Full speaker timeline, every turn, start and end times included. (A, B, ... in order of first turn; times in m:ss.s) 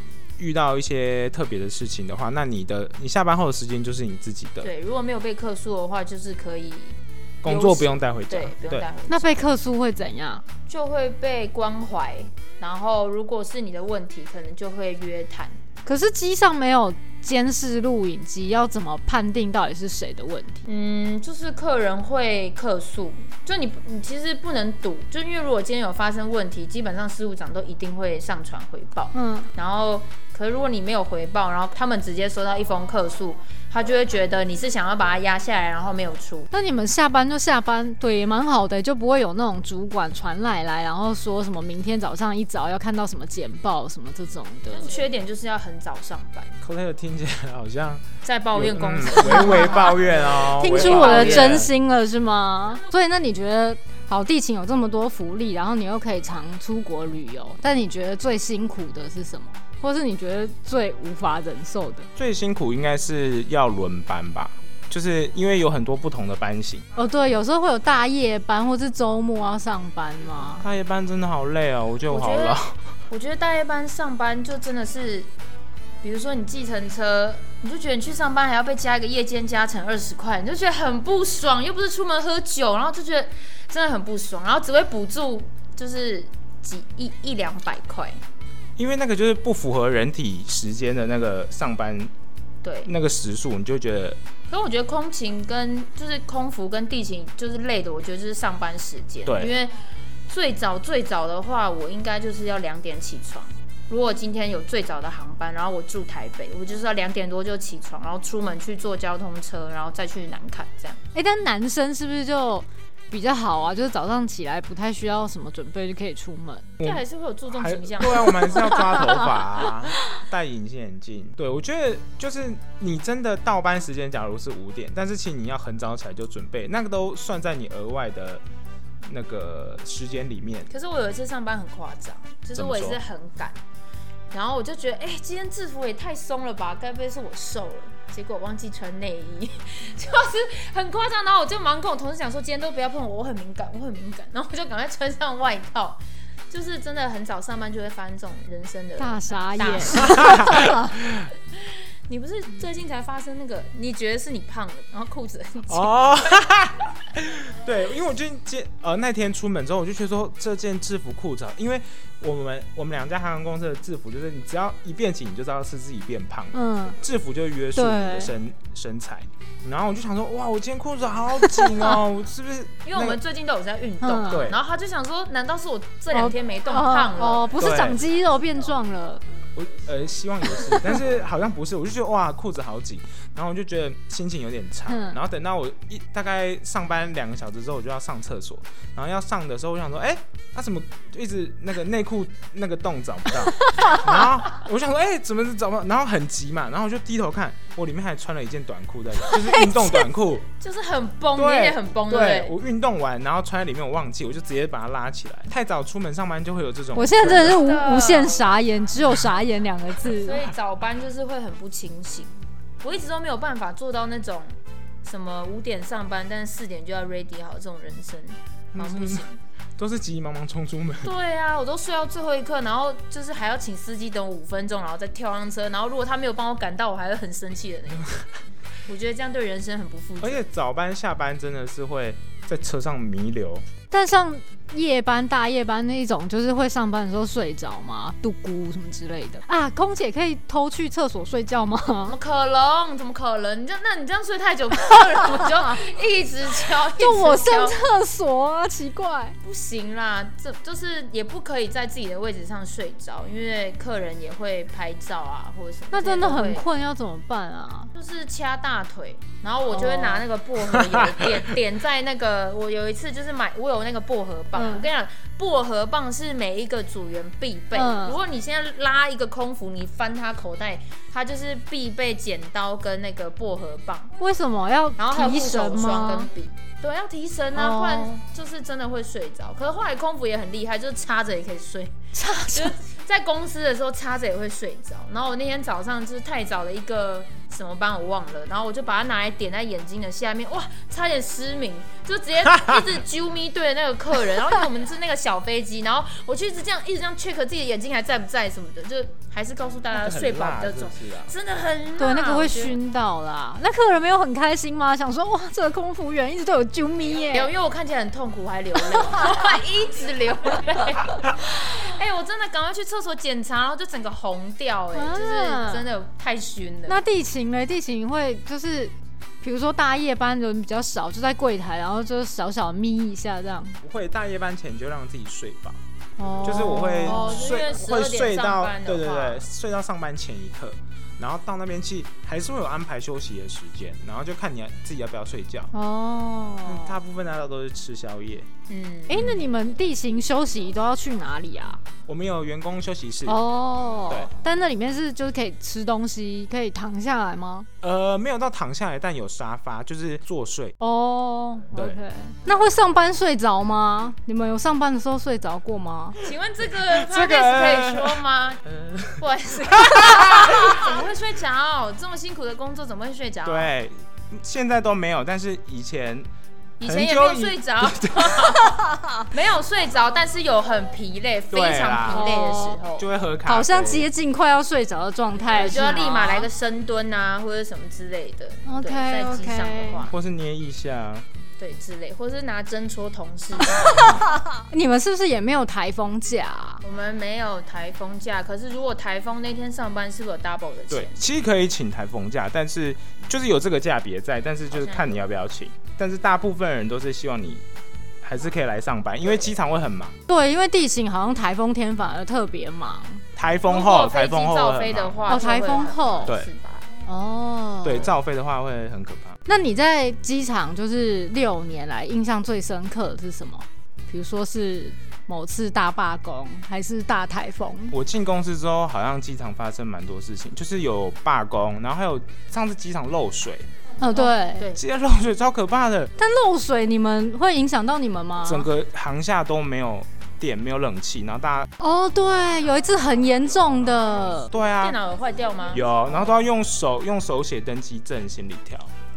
0:00.4-0:04.7 A
0:04.6-0:09.4 B
0:07.4-0:08.9 A
0:09.1-0:10.4 C
0:10.7-0:15.6 B
0:15.9-0:20.6 C
0:20.7-0:36.5 B
0:29.1-0:29.5 C
0:36.5-0:44.9 C
0:44.7-0:46.6 B
0:46.6-0:51.7 A
0:48.2-0:51.7 B
0:49.2-0:49.9 C
0:50.5-1:02.1 C
1:02.2-1:06.8 A
1:07.0-1:10.7 C
1:10.6-1:12.8 A
1:12.1-1:15.3 B
1:16.0-1:28.2 B
1:28.8-1:32.1 A
1:32.6-1:32.9 B
1:32.8-1:34.2 A
1:34.5-1:39.7 B
1:39.3-1:39.6 A
1:40.3-1:51.0 B
1:51.1-1:56.7 C
1:56.8-2:08.4 A
1:56.8-1:58.7 B
1:58.5-1:59.4 C
2:09.0-2:10.7 A
2:10.7-2:13.6 B
2:12.6-2:13.0 A
2:14.3-2:30.8 B
2:29.0-2:30.9 C
2:30.0-2:31.3 A
2:32.1-2:36.5 B
2:35.7-2:53.2 A
2:46.5-2:47.0 C
2:47.8-2:48.3 C
2:51.4-2:52.0 C
2:52.8-2:57.5 B
2:54.0-2:54.5 C
2:54.3-2:54.6 A
2:56.1-2:59.2 C
2:57.6-2:58.0 A
2:59.6-3:20.5 A
3:04.9-3:05.2 C
3:19.3-3:20.1 C
3:20.6-3:22.6 B
3:21.4-3:27.6 A
3:27.0-3:30.5 C
3:27.3-3:28.5 B
3:30.2-3:39.4 B
3:38.7-3:39.2 A
3:39.8-3:41.1 A
3:41.0-3:48.2 B
3:48.9-3:50.4 B
3:50.2-3:53.6 A
3:53.9-4:02.2 C
4:02.1-4:07.8 B
4:07.0-4:09.4 C
4:09.4-4:16.7 B
4:15.9-4:17.9 C
4:18.0-4:34.2 B
4:19.7-4:20.2 C
4:20.6-4:21.6 A
4:24.6-4:24.9 C
4:27.7-4:28.2 C
4:34.2-4:36.3 C
4:35.0-5:02.8 B
4:37.6-4:38.2 C
4:42.2-4:42.8 C
4:52.6-4:52.8 A
4:59.9-5:01.3 A
5:02.0-5:07.5 C
5:07.3-5:17.0 B
5:15.0-5:15.9 C
5:16.9-5:23.8 C
5:23.8-5:25.8 A
5:26.2-5:27.6 C
5:26.4-5:35.7 A
5:26.5-5:29.4 B
5:35.7-5:37.0 C
5:36.6-5:38.5 A
5:38.7-5:39.4 B
5:39.1-5:41.8 C
5:42.1-5:43.4 A
5:43.3-5:47.7 C
5:47.8-5:50.8 A
5:50.8-5:56.2 C
5:51.8-5:52.0 A
5:56.2-5:58.6 B
5:56.8-6:01.0 A
5:59.2-6:03.7 B
6:03.4-6:06.3 A
6:06.8-6:13.1 B
6:06.8-6:08.6 A
6:11.5-6:12.4 A
6:12.1-6:12.8 C
6:12.9-6:14.1 A
6:13.5-6:16.5 C
6:15.5-6:20.2 B
6:18.6-6:20.0 C
6:20.1-6:21.2 A
6:21.6-6:24.2 B
6:23.7-6:26.8 C
6:26.8-6:31.2 B
6:30.9-6:37.6 A
6:34.7-6:35.2 B
6:38.2-6:40.2 A
6:40.3-6:43.2 C
6:43.4-6:45.4 A
6:43.7-6:46.9 B
6:45.3-6:46.3 C
6:47.1-6:48.1 C
6:47.8-6:49.4 A
6:49.5-6:58.0 C
6:57.9-7:03.7 A
7:04.0-7:04.7 C
7:04.1-7:04.8 B
7:04.8-7:06.1 A
7:06.2-7:08.7 C
7:08.4-7:11.7 A
7:11.8-7:14.5 C
7:14.5-7:15.0 A
7:14.8-7:16.3 B
7:15.7-7:18.9 A